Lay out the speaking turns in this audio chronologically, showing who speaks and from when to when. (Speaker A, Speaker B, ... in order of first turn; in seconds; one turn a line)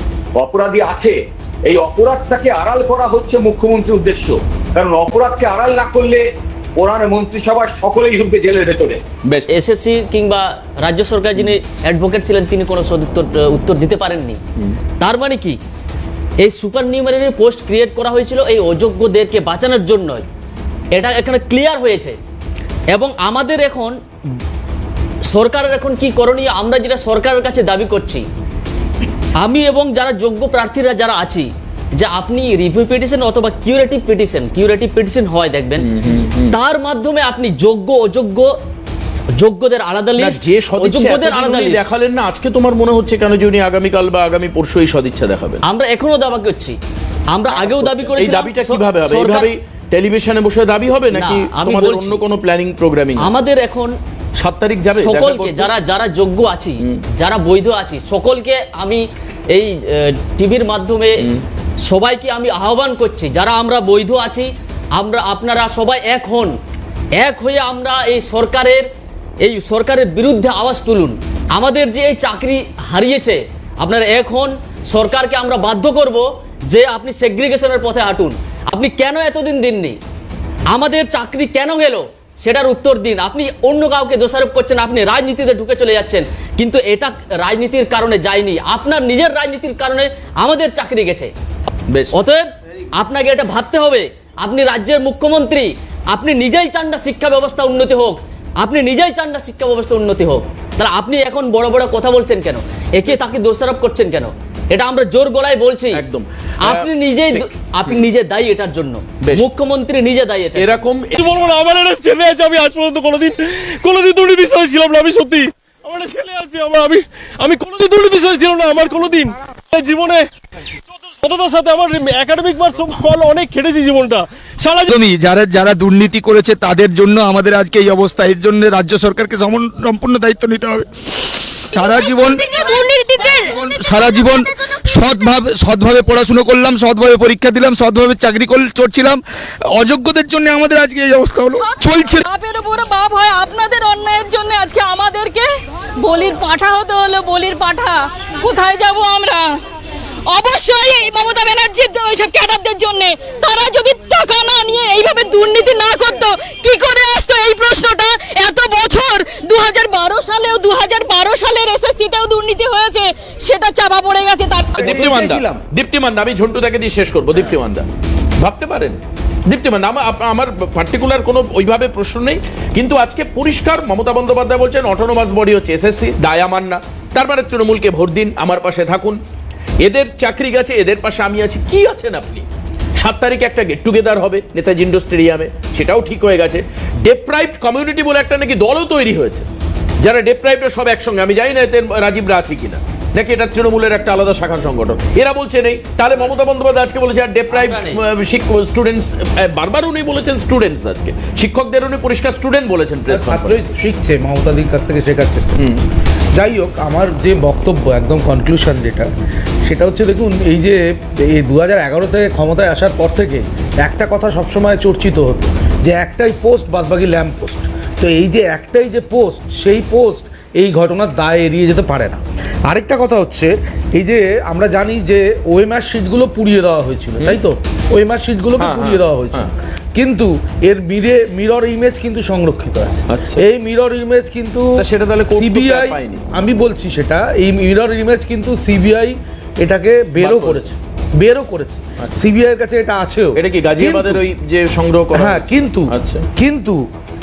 Speaker A: 0.3-6.2
Speaker A: 6.8-9.0
Speaker B: 9.5-14.4
Speaker B: 15.0-15.6
Speaker B: 16.4-20.2
Speaker B: 20.9-22.2
Speaker B: 22.9-23.9
Speaker B: 25.3-28.2
Speaker B: 29.4-35.9
Speaker C: 35.8-36.5
Speaker B: 36.5-38.5
Speaker B: 39.4-41.8
Speaker C: 40.2-45.6
Speaker B: 45.7-46.8
Speaker B: 47.3-49.5
Speaker C: 47.5-53.3
Speaker B: 51.1-52.2
Speaker B: 53.2-53.9
Speaker C: 54.4-55.7
Speaker B: 54.9-61.2
Speaker B: 61.9-66.5
Speaker B: 67.2-68.8
Speaker B: 69.4-80.0
Speaker B: 80.7-91.3
Speaker C: 91.9-92.1
Speaker B: 92.1-106.0
Speaker C: 105.9-108.0
Speaker B: 106.6-110.9
Speaker C: 109.2-109.5
Speaker C: 110.6-111.3
Speaker D: 111.1-120.2
Speaker D: 120.9-124.9
Speaker E: 124.9-132.7
Speaker F: 131.7-135.3
Speaker E: 133.4-142.3
Speaker F: 141.5-149.6
Speaker F: 150.3-165.1
Speaker G: 164.8-165.6
Speaker C: 164.8-179.2
Speaker C: 179.8-182.4
Speaker C: 183.0-189.5
Speaker C: 190.0-203.6
Speaker B: 197.5-198.0
Speaker G: 203.1-205.8
Speaker C: 205.6-205.8
Speaker G: 206.3-209.1
Speaker G: 209.7-244.2
Speaker C: 228.6-229.5
Speaker C: 233.1-233.4
Speaker C: 234.8-236.2
Speaker C: 240.2-240.7
Speaker C: 242.0-242.2
Speaker C: 243.3-246.3
Speaker G: 245.1-246.8